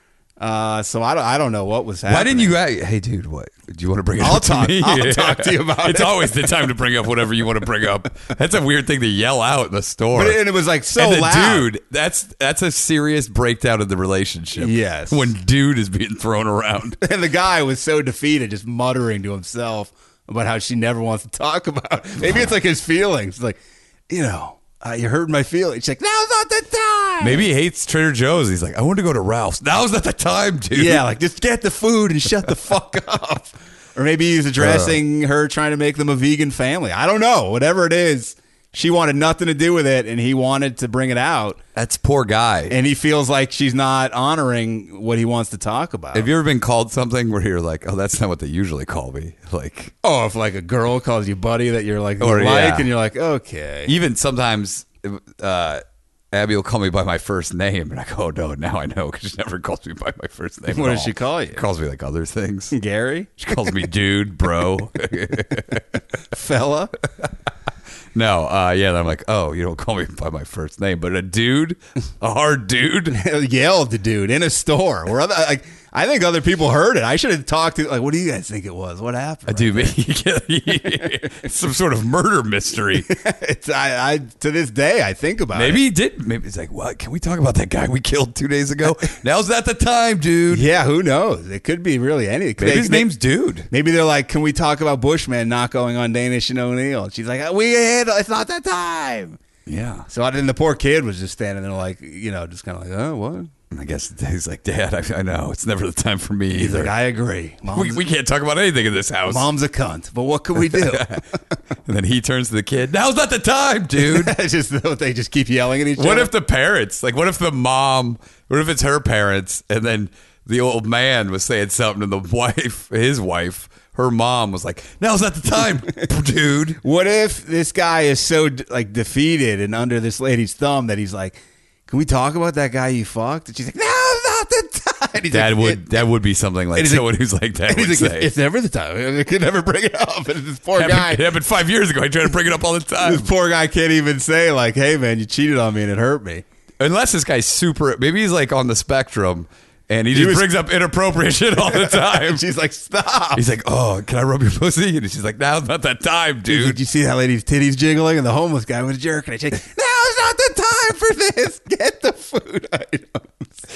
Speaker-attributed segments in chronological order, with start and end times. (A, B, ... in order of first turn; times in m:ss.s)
0:00.4-0:02.5 A
0:02.1-0:10.4 B
0:04.2-0:06.6 A
0:10.1-0:11.7 A
0:10.9-0:17.0 B
0:14.6-0:15.3 A
0:17.0-0:27.5 A
0:27.2-0:31.0 B
0:30.7-0:41.6 A
0:34.6-0:35.0 B
0:41.7-0:42.7 B
0:42.7-0:46.3 A
0:46.1-0:49.9 B
0:50.0-0:53.9 A
0:52.2-0:52.9 B
0:53.8-1:02.7 B
1:00.7-1:01.6 A
1:02.7-1:03.4 A
1:03.4-1:05.8 B
1:06.3-1:06.9 A
1:08.1-1:13.2 B
1:13.1-1:20.0 A
1:19.5-1:23.1 B
1:20.8-1:21.1 A
1:23.0-1:25.8 A
1:25.5-1:30.6 B
1:30.5-1:33.1 A
1:32.6-1:33.7 B
1:33.7-1:39.4 A
1:39.7-1:40.0 B
1:40.1-1:43.5 A
1:43.7-1:46.9 B
1:46.5-1:48.0 A
1:47.7-1:49.4 B
1:49.2-1:51.2 A
1:50.6-1:51.2 B
1:51.8-1:54.3 B
1:54.0-1:56.3 A
1:56.0-2:06.8 B
2:06.8-2:15.9 A
2:15.3-2:18.3 B
2:16.7-2:17.1 A
2:17.7-2:21.3 A
2:20.8-2:23.2 B
2:23.0-2:26.4 A
2:26.8-2:32.4 B
2:30.1-2:30.5 A
2:31.6-2:33.4 A
2:33.3-2:36.8 B
2:36.5-2:43.5 A